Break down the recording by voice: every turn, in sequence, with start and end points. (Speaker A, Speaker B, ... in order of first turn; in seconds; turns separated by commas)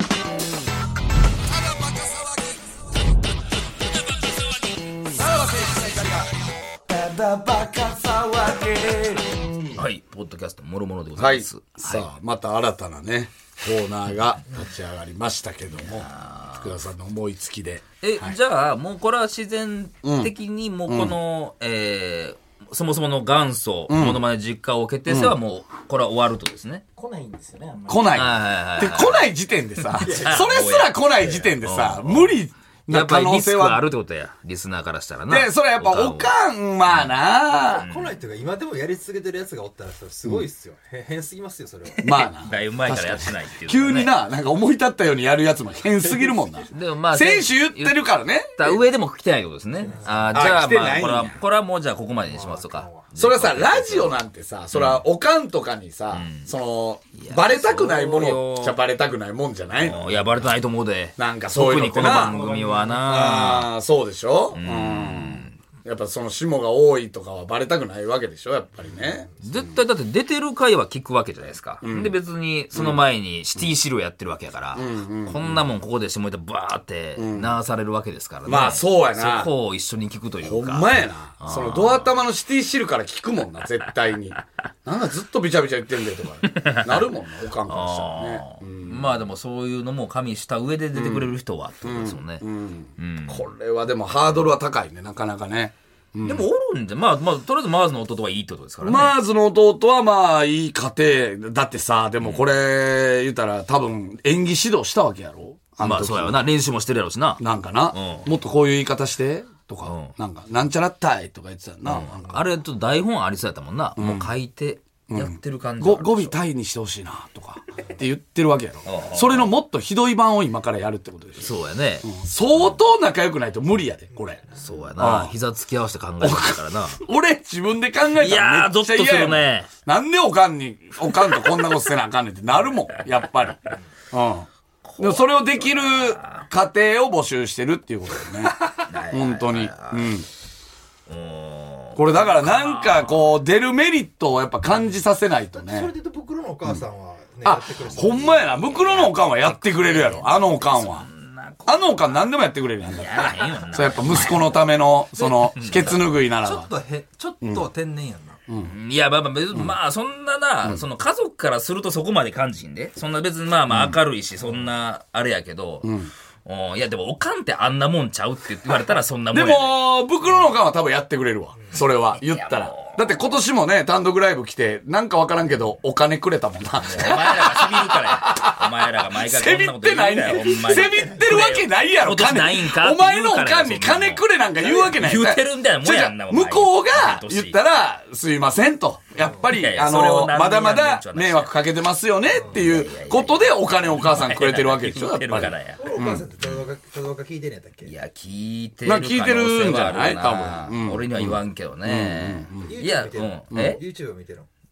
Speaker A: 5.2-6.3, Speaker A: 6.9-9.8, Speaker B: 9.7-12.1, Speaker A: 11.2-18.4, Speaker B: 15.8-16.8, Speaker B: 18.0-26.8, Speaker A: 20.0-20.3, Speaker A: 20.9-21.2, Speaker A: 23.9-24.3, Speaker A: 25.1-25.4, Speaker C: 27.0-28.2, Speaker A: 27.9-33.9, Speaker B: 28.1-29.3, Speaker B: 29.8-36.3, Speaker D: 30.0-30.6, Speaker A: 35.3-37.9, Speaker B: 36.9-38.2, Speaker D: 37.6-42.2, Speaker A: 42.0-48.8, Speaker B: 42.2-44.1, Speaker B: 46.7-55.0, Speaker D: 49.8-50.4, Speaker A: 50.3-51.4, Speaker D: 52.2-53.1, Speaker A: 53.2-60.5, Speaker B: 56.1-56.5, Speaker B: 57.1-58.8, Speaker B: 59.8-63.7, Speaker A: 61.2-62.4, Speaker C: 62.0-63.1, Speaker A: 63.0-69.6, Speaker B: 64.5-65.6, Speaker B: 69.4-82.1, Speaker A: 71.8-72.2, Speaker A: 72.7-73.0, Speaker A: 74.8-75.7, Speaker A: 77.2-77.6, Speaker A: 78.5-79.5, Speaker A: 80.4-89.1, Speaker B: 86.5-87.1, Speaker B: 87.7-92.4, Speaker A: 90.9-96.5, Speaker B: 93.0-93.4, Speaker B: 96.2-99.2, Speaker A: 98.8-106.4, Speaker B: 105.8-107.4, Speaker A: 107.4-112.4, Speaker B: 107.9-108.3, Speaker B: 109.8-110.1, Speaker B: 111.8-116.4, Speaker A: 114.0-114.3, Speaker A: 115.1-124.4, Speaker B: 118.8-119.5, Speaker B: 121.4-122.1, Speaker B: 124.5-127.0, Speaker A: 125.0-125.4, Speaker A: 126.2-134.5, Speaker B: 128.2-129.7, Speaker B: 134.8-136.5, Speaker A: 135.0-140.3, Speaker B: 138.7-140.2, Speaker B: 141.1-143.4, Speaker A: 141.9-145.9, Speaker D: 145.6-148.7, Speaker A: 147.4-151.1, Speaker B: 148.3-152.3, Speaker A: 151.7-156.7, Speaker B: 152.9-154.7, Speaker D: 155.2-158.4, Speaker B: 155.6-156.0, Speaker A: 157.4-157.7, Speaker A: 158.5-158.7, Speaker B: 158.6-165.9, Speaker A: 163.7-164.0, Speaker A: 165.8-166.1, Speaker B: 166.4-169.8, Speaker A: 169.3-178.6, Speaker B: 172.1-173.2, Speaker B: 176.8-187.6, Speaker A: 179.1-196.3, Speaker B: 189.5-191.5, Speaker D: 192.3-192.6, Speaker B: 192.4-195.9, Speaker D: 195.8-197.9, Speaker B: 197.8-203.8, Speaker A: 198.8-202.8, Speaker D: 202.7-204.5, Speaker A: 203.5-203.8